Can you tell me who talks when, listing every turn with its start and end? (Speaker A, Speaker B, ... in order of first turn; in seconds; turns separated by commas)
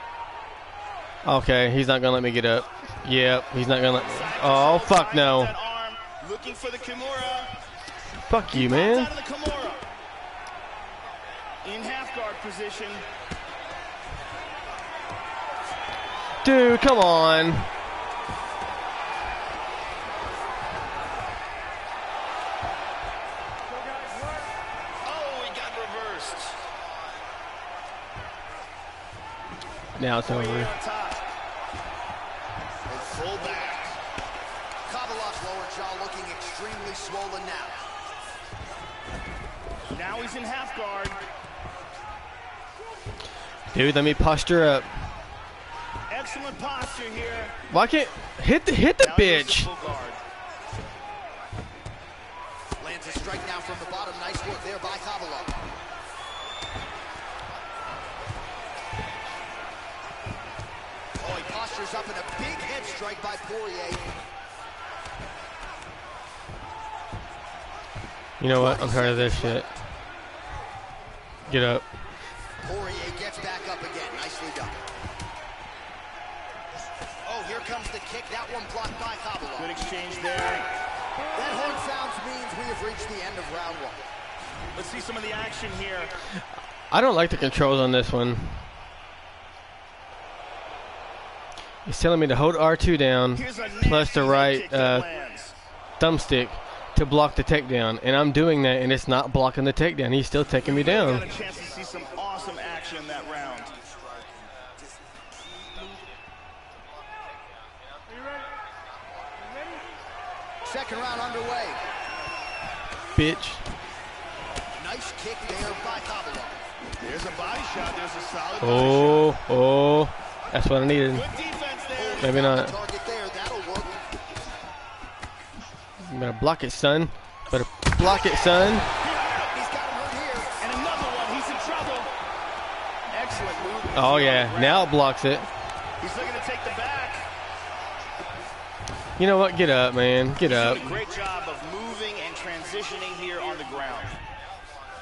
Speaker A: 1.2-5.5, Speaker B: 4.0-7.5, Speaker A: 8.3-9.1, Speaker B: 8.5-9.8, Speaker B: 11.6-13.0, Speaker A: 16.4-17.7, Speaker B: 25.0-26.6, Speaker A: 29.9-30.7, Speaker B: 30.2-31.2, Speaker C: 32.9-33.3, Speaker B: 33.1-34.0, Speaker C: 34.9-37.8, Speaker B: 39.9-41.2, Speaker A: 43.7-44.9, Speaker B: 46.1-47.6, Speaker A: 47.7-49.7, Speaker B: 49.0-50.2, Speaker C: 52.8-55.5, Speaker C: 61.2-64.1, Speaker A: 68.4-69.7, Speaker C: 68.5-69.7, Speaker A: 71.5-71.8, Speaker C: 72.6-74.8, Speaker C: 77.2-79.8, Speaker B: 79.6-80.8, Speaker C: 81.3-84.0, Speaker B: 84.8-86.1, Speaker A: 86.9-88.6, Speaker A: 91.8-95.1, Speaker B: 93.3-95.5, Speaker A: 96.0-101.3, Speaker B: 100.6-103.7, Speaker C: 110.6-111.8, Speaker A: 113.1-113.7, Speaker C: 114.8-116.6, Speaker B: 117.0-119.3, Speaker A: 118.6-121.2, Speaker B: 121.1-122.3, Speaker C: 121.9-124.0, Speaker A: 122.2-122.7, Speaker A: 126.0-128.8, Speaker B: 128.8-129.6, Speaker C: 129.5-130.6, Speaker B: 130.6-132.1, Speaker B: 133.1-134.9, Speaker A: 133.9-135.5, Speaker B: 136.0-137.3, Speaker A: 139.2-141.0, Speaker B: 140.4-144.2